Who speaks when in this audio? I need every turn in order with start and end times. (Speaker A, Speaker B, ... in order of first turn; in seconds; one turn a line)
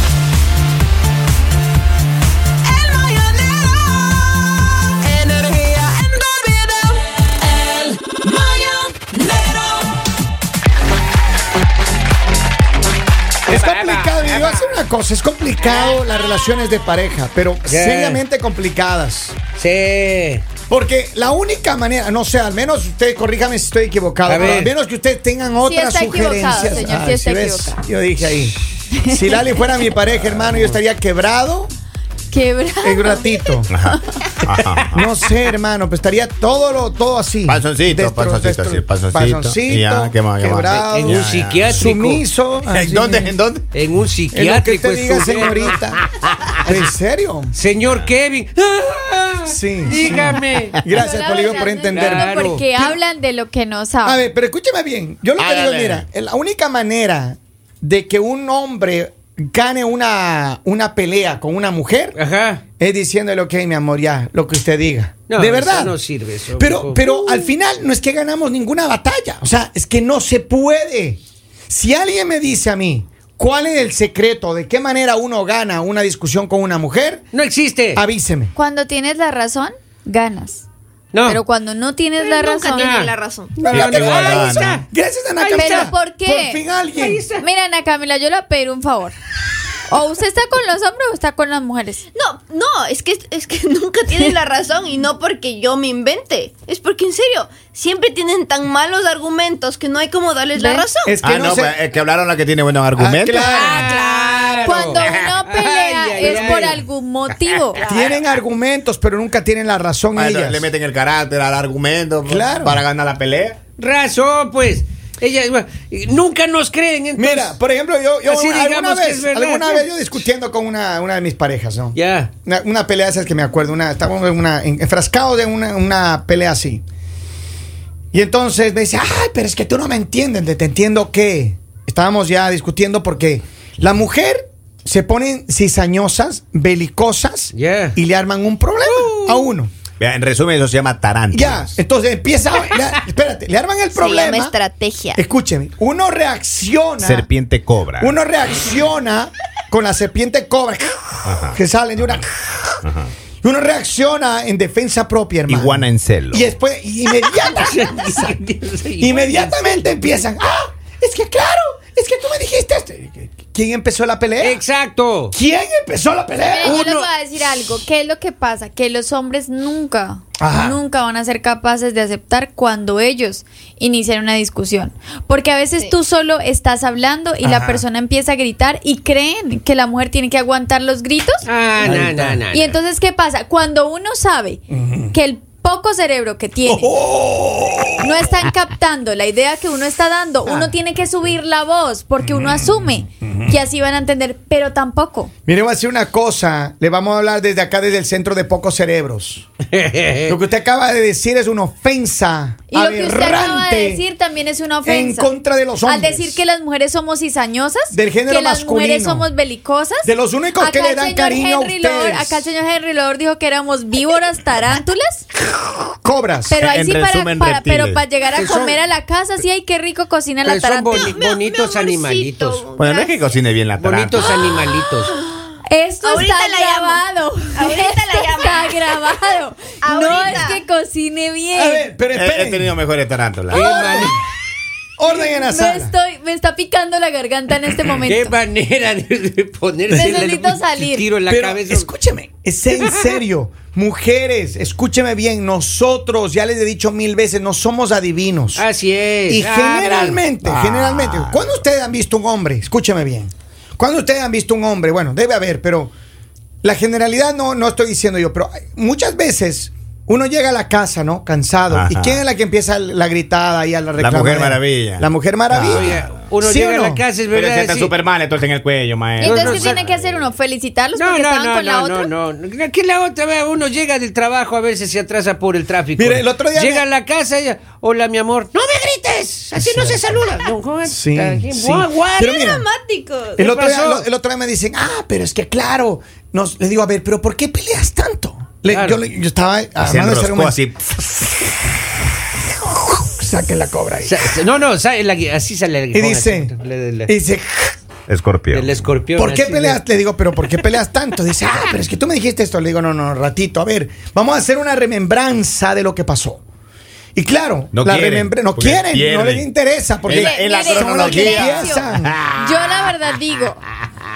Speaker A: 2.9-3.8
Speaker B: 5.3-5.8
Speaker A: 6.0-6.5
Speaker B: 13.5-14.8
Speaker C: 13.5-19.4
Speaker B: 15.6-16.0
Speaker B: 17.7-18.2
Speaker B: 19.6-20.4
Speaker C: 20.7-28.6
Speaker B: 24.2-24.7
Speaker D: 25.6-27.8
Speaker D: 28.9-29.4
Speaker C: 29.1-31.7
Speaker E: 30.3-30.6
Speaker D: 32.3-34.3
Speaker C: 32.8-33.7
Speaker E: 33.7-35.1
Speaker C: 34.9-43.3
Speaker E: 37.5-41.9
Speaker B: 40.9-42.2
Speaker E: 42.7-43.6
Speaker B: 43.7-45.8
Speaker C: 44.3-46.0
Speaker C: 46.6-47.5
Speaker B: 46.6-46.9
Speaker B: 47.5-50.8
Speaker E: 47.8-48.1
Speaker C: 49.5-53.0
Speaker D: 50.9-54.2
Speaker B: 51.9-52.6
Speaker C: 54.0-62.2
Speaker E: 55.4-56.0
Speaker B: 62.1-62.6
Speaker C: 62.8-66.0
Speaker B: 65.3-67.1
Speaker C: 66.5-77.3
Speaker B: 77.3-78.0
Speaker C: 77.9-78.5
Speaker D: 78.5-80.7
Speaker B: 81.1-81.4
Speaker D: 81.2-82.9
Speaker A: 82.2-83.7
Speaker B: 82.7-84.8
Speaker C: 83.7-87.2
Speaker E: 83.7-84.7
Speaker B: 85.4-85.9
Speaker D: 85.5-86.7
Speaker B: 86.9-87.5
Speaker D: 87.4-89.2
Speaker D: 89.9-92.0
Speaker A: 92.1-101.2
Speaker D: 100.5-100.9
Speaker C: 101.0-101.8
Speaker E: 101.2-103.5
Speaker C: 103.0-103.9
Speaker B: 103.5-106.8
Speaker A: 103.5-104.9
Speaker D: 104.6-108.0
Speaker C: 107.8-110.7
Speaker E: 110.2-113.6
Speaker C: 112.3-112.8
Speaker B: 113.8-117.5
Speaker C: 117.2-126.8
Speaker B: 118.3-119.9
Speaker B: 121.9-122.3
Speaker C: 128.1-139.7
Speaker B: 137.5-137.9
Speaker B: 138.9-139.4
Speaker E: 140.0-141.7
Speaker C: 141.3-144.6
Speaker A: 143.9-145.2
Speaker C: 145.1-147.3
Speaker E: 147.0-148.1
Speaker C: 148.0-152.7
Speaker E: 151.2-151.6
Speaker E: 152.8-153.1
Speaker C: 153.4-158.4
Speaker E: 155.5-156.5
Speaker B: 157.4-159.8
Speaker C: 159.0-164.6
Speaker B: 164.4-165.3
Speaker C: 165.3-166.8
Speaker D: 166.4-181.4
Speaker B: 166.6-167.1
Speaker C: 170.4-170.8
Speaker C: 177.4-177.8
Speaker B: 181.4-182.8
Speaker C: 181.8-182.4
Speaker D: 182.5-186.9
Speaker C: 184.7-185.1
Speaker C: 186.7-188.5
Speaker D: 188.0-195.3
Speaker C: 190.4-190.8
Speaker C: 192.2-193.6
Speaker C: 195.4-199.4
Speaker B: 199.7-200.3
Speaker C: 200.2-204.0
Speaker D: 202.7-205.3
Speaker C: 204.8-206.4
Speaker D: 205.8-215.2
Speaker C: 207.9-209.3
Speaker C: 210.0-212.5
Speaker C: 216.0-216.6
Speaker D: 216.5-221.2
Speaker E: 216.6-218.0
Speaker B: 220.4-222.7
Speaker A: 220.9-223.3
Speaker E: 222.8-224.7
Speaker B: 223.8-225.1
Speaker A: 224.2-227.0
Speaker D: 225.6-231.9
Speaker A: 227.5-229.2
Speaker A: 229.8-230.6
Speaker C: 231.5-232.7
Speaker E: 232.1-233.7
Speaker B: 233.5-234.2
Speaker C: 233.5-234.2
Speaker C: 235.0-235.9
Speaker D: 235.0-238.3
Speaker B: 238.0-241.9
Speaker D: 239.9-241.1
Speaker C: 241.2-248.6
Speaker B: 242.7-243.2
Speaker B: 248.5-250.2
Speaker C: 249.3-255.9
Speaker E: 250.4-251.6
Speaker C: 256.6-267.1
Speaker E: 261.7-262.2
Speaker E: 264.0-266.0
Speaker B: 265.7-267.9
Speaker E: 267.3-270.3
Speaker D: 269.2-272.1
Speaker B: 269.2-269.8
Speaker B: 270.9-282.2
Speaker C: 276.0-276.9
Speaker C: 279.6-280.2
Speaker C: 280.9-282.7
Speaker A: 282.2-283.4
Speaker C: 283.4-291.4
Speaker B: 283.4-284.1
Speaker B: 288.7-289.0
Speaker E: 289.8-290.8
Speaker C: 292.6-294.2
Speaker B: 294.0-297.1
Speaker C: 295.9-296.5
Speaker C: 297.1-297.8
Speaker E: 298.1-298.9
Speaker B: 298.5-299.8
Speaker C: 299.2-306.4
Speaker C: 307.2-312.1
Speaker E: 307.7-309.5
Speaker E: 310.0-312.9
Speaker D: 310.1-313.6